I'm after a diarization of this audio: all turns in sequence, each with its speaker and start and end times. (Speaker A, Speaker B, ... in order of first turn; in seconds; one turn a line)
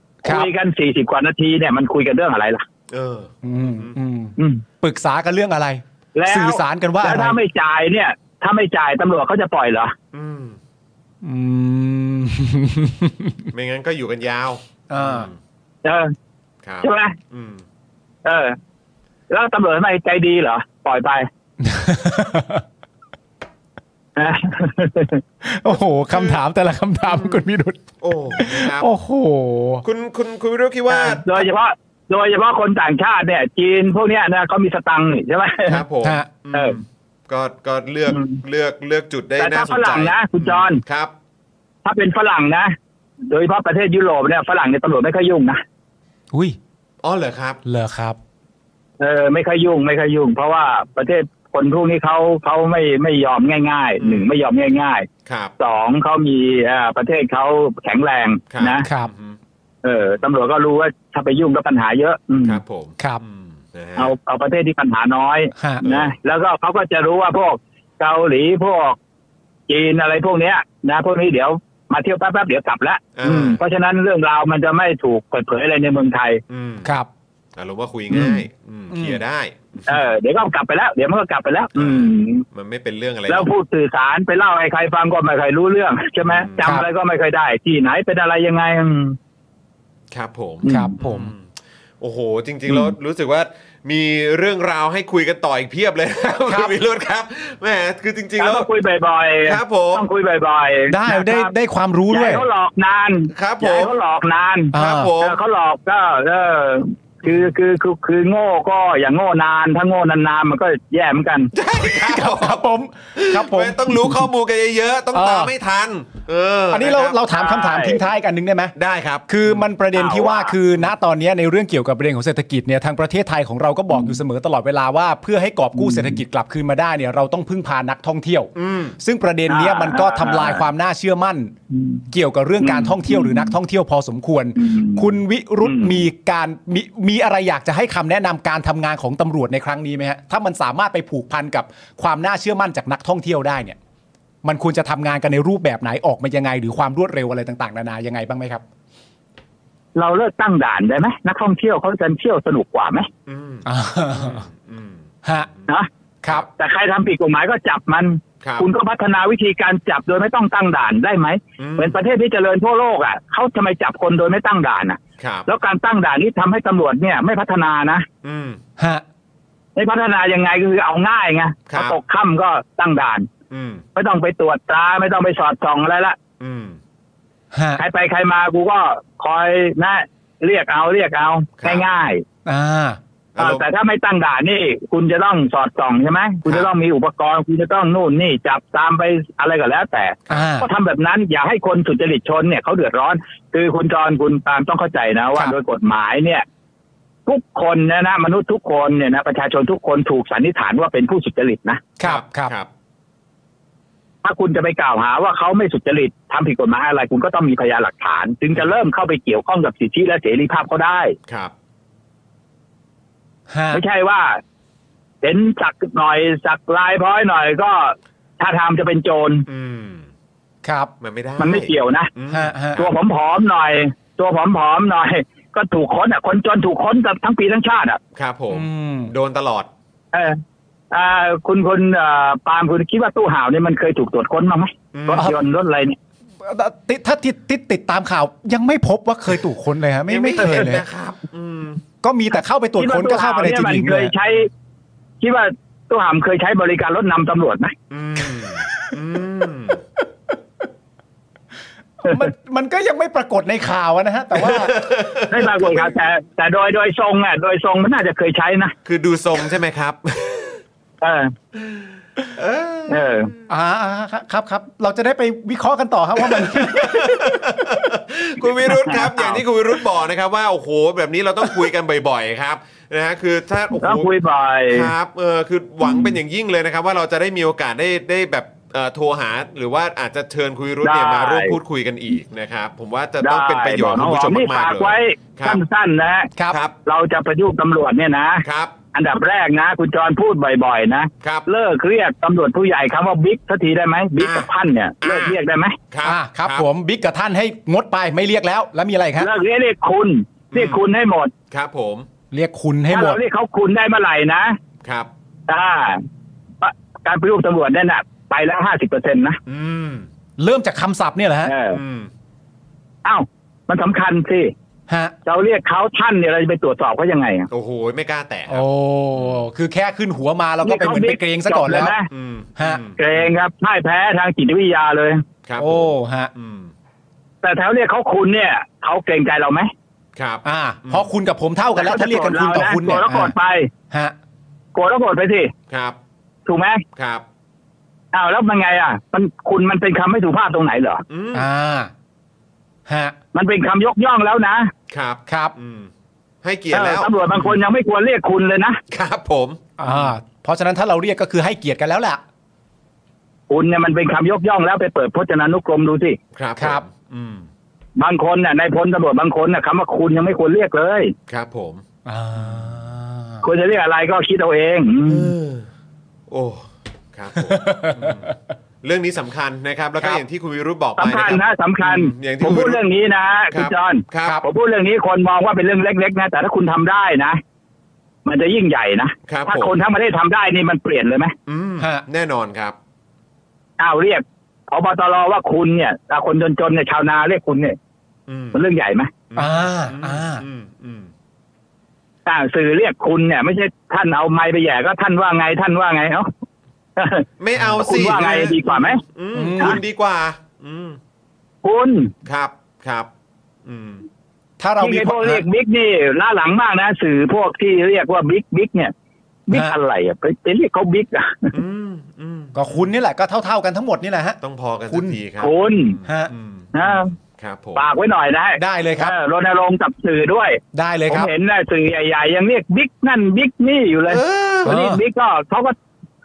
Speaker A: 0.2-0.5
Speaker B: 0.2-2.6
Speaker C: 2.9-4.0
Speaker A: 3.4-7.4
Speaker B: 4.4-4.6
Speaker B: 6.1-9.9
Speaker C: 10.1-10.6
Speaker A: 11.2-13.5
Speaker C: 13.5-15.4
Speaker A: 14.9-15.3
Speaker B: 15.8-16.1
Speaker C: 16.6-17.6
Speaker B: 16.8-17.1
Speaker B: 18.2-18.6
Speaker B: 19.3-21.3
Speaker A: 21.6-22.6
Speaker B: 24.1-25.2
Speaker A: 25.4-29.8
Speaker C: 25.7-26.4
Speaker C: 27.1-27.4
Speaker C: 28.0-28.9
Speaker C: 29.8-31.2
Speaker B: 30.9-35.8
Speaker C: 35.6-41.1
Speaker B: 36.5-36.8
Speaker B: 38.1-38.4
Speaker B: 39.4-40.8
Speaker B: 41.8-42.7
Speaker B: 43.3-45.6
Speaker A: 46.3-46.6
Speaker C: 47.0-47.6
Speaker A: 47.6-48.2
Speaker B: 49.0-55.1
Speaker C: 54.0-54.3
Speaker C: 55.2-55.5
Speaker B: 55.6-58.9
Speaker C: 58.5-59.4
Speaker A: 58.8-59.1
Speaker B: 59.8-62.6
Speaker C: 62.4-64.1
Speaker B: 64.0-69.0
Speaker A: 65.5-65.8
Speaker C: 65.8-66.1
Speaker B: 69.7-76.4
Speaker C: 73.2-73.6
Speaker C: 76.5-76.9
Speaker C: 77.5-80.0
Speaker B: 78.1-78.4
Speaker A: 78.9-79.2
Speaker B: 79.9-82.4
Speaker C: 81.8-83.5
Speaker B: 83.3-89.2
Speaker C: 86.3-86.6
Speaker C: 90.1-91.5
Speaker B: 90.6-90.9
Speaker A: 90.7-91.3
Speaker C: 92.0-98.7
Speaker A: 96.5-96.7
Speaker B: 98.4-101.5
Speaker C: 99.5-100.1
Speaker A: 100.9-102.4
Speaker B: 102.1-111.5
Speaker C: 103.3-103.9
Speaker A: 104.7-105.1
Speaker C: 104.7-105.4
Speaker C: 111.5-112.6
Speaker A: 111.8-114.2
Speaker C: 113.1-117.2
Speaker A: 115.1-115.5
Speaker A: 116.7-118.7
Speaker B: 117.3-118.0
Speaker C: 118.8-119.7
Speaker A: 119.3-131.5
Speaker B: 119.9-120.5
Speaker B: 123.9-124.2
Speaker B: 125.8-126.2
Speaker C: 128.5-129.0
Speaker B: 129.5-130.6
Speaker B: 131.7-132.0
Speaker A: 132.1-143.8
Speaker B: 132.6-133.5
Speaker B: 134.6-135.1
Speaker B: 135.6-136.0
Speaker A: 144.4-148.6
Speaker B: 149.9-153.1
Speaker C: 153.2-155.7
Speaker A: 153.7-154.4
Speaker B: 156.5-168.1
Speaker C: 161.6-162.0
Speaker C: 165.2-165.5
Speaker C: 168.2-168.6
Speaker A: 168.8-169.0
Speaker B: 169.8-173.3
Speaker C: 171.7-172.0
Speaker C: 173.5-173.8
Speaker B: 173.9-176.2
Speaker C: 176.4-176.8
Speaker A: 177.5-177.8
Speaker B: 177.8-182.2
Speaker C: 181.6-181.8
Speaker A: 182.4-183.0
Speaker C: 183.3-183.6
Speaker B: 183.4-196.4
Speaker A: 190.3-190.7
Speaker B: 197.2-201.8
Speaker A: 202.0-202.5
Speaker C: 202.0-202.7
Speaker B: 204.2-211.1
Speaker C: 211.3-211.5
Speaker A: 213.5-213.8
Speaker B: 213.7-214.4
Speaker B: 215.2-219.4
Speaker C: 219.5-220.1
Speaker A: 220.6-220.9
Speaker C: 221.0-222.9
Speaker B: 221.4-222.1
Speaker A: 222.3-222.8
Speaker B: 222.8-228.0
Speaker C: 228.1-229.7
Speaker A: 228.5-229.1
Speaker B: 230.1-230.4
Speaker B: 230.9-236.0
Speaker C: 234.9-235.3
Speaker A: 235.1-235.4
Speaker A: 236.4-240.8
Speaker C: 240.1-241.8
Speaker A: 242.0-244.1
Speaker B: 242.8-244.5
Speaker B: 245.2-247.7
Speaker C: 247.9-249.8
Speaker A: 252.0-254.7
Speaker C: 254.3-255.9
Speaker B: 255.3-258.7
Speaker C: 258.8-260.6
Speaker B: 261.0-261.3
Speaker C: 262.3-263.1
Speaker B: 262.9-263.3
Speaker A: 263.5-267.6
Speaker C: 266.2-274.1
Speaker B: 268.7-269.4
Speaker B: 273.8-274.9
Speaker C: 274.7-285.6
Speaker B: 275.8-276.1
Speaker B: 280.8-281.6
Speaker B: 283.2-286.3
Speaker B: 286.8-295.8
Speaker C: 288.4-288.7
Speaker C: 294.2-294.5
Speaker C: 295.0-295.4
Speaker C: 295.9-296.6
Speaker A: 296.0-299.3
Speaker B: 299.2-301.3
Speaker C: 300.5-300.8
Speaker C: 301.5-302.1
Speaker A: 302.3-303.2
Speaker B: 302.9-304.6
Speaker C: 304.8-305.1
Speaker B: 305.5-306.0
Speaker B: 306.6-309.4
Speaker C: 309.4-310.1
Speaker A: 310.4-311.5
Speaker B: 311.4-311.8
Speaker C: 311.7-312.1
Speaker B: 313.0-314.5
Speaker A: 314.9-315.1
Speaker B: 315.2-317.5
Speaker C: 317.5-319.4
Speaker A: 318.5-321.9
Speaker B: 320.6-322.1
Speaker C: 322.1-323.3
Speaker B: 323.0-325.2
Speaker C: 325.4-326.7
Speaker A: 325.6-326.3
Speaker B: 327.4-329.7
Speaker C: 330.1-331.1
Speaker A: 330.4-333.3
Speaker B: 331.8-333.7
Speaker A: 333.9-334.1
Speaker B: 334.7-335.5
Speaker C: 335.7-336.0
Speaker B: 336.4-336.8
Speaker C: 336.9-337.2
Speaker B: 338.1-341.0
Speaker C: 341.1-341.5
Speaker A: 341.3-341.9
Speaker A: 342.9-343.1
Speaker B: 343.3-344.7
Speaker C: 344.9-345.9
Speaker A: 345.3-345.5
Speaker C: 346.4-347.6
Speaker B: 346.7-348.8
Speaker C: 348.9-350.1
Speaker A: 349.8-352.2
Speaker B: 353.5-356.2
Speaker C: 356.3-357.5
Speaker A: 356.6-356.8
Speaker B: 357.9-361.1
Speaker C: 361.3-361.8
Speaker A: 362.0-363.4
Speaker C: 362.4-362.7
Speaker B: 363.4-365.3
Speaker C: 365.1-365.7
Speaker C: 366.3-368.3
Speaker A: 367.3-368.3
Speaker C: 368.8-372.8
Speaker B: 371.0-377.4
Speaker C: 373.5-374.4
Speaker B: 378.2-381.3
Speaker C: 379.3-379.8
Speaker C: 381.5-382.8
Speaker B: 383.8-387.8
Speaker C: 388.3-388.6
Speaker B: 388.5-389.1
Speaker C: 389.3-391.1
Speaker A: 389.4-390.4
Speaker B: 392.2-396.3
Speaker B: 396.9-397.2
Speaker C: 397.4-401.0
Speaker B: 397.8-399.0
Speaker A: 399.3-399.8
Speaker B: 401.6-402.1
Speaker C: 402.2-403.1
Speaker C: 403.6-404.0
Speaker A: 404.6-405.4
Speaker B: 404.8-408.9
Speaker B: 409.5-411.5
Speaker A: 409.5-409.8
Speaker C: 411.5-412.9
Speaker A: 412.5-414.4
Speaker C: 414.4-415.5
Speaker A: 414.9-415.2
Speaker B: 415.4-416.0
Speaker A: 416.0-416.3
Speaker C: 416.3-417.8
Speaker B: 416.7-417.1
Speaker B: 417.8-425.7
Speaker A: 418.6-419.1
Speaker A: 420.7-421.3
Speaker C: 424.1-424.7
Speaker A: 424.6-425.0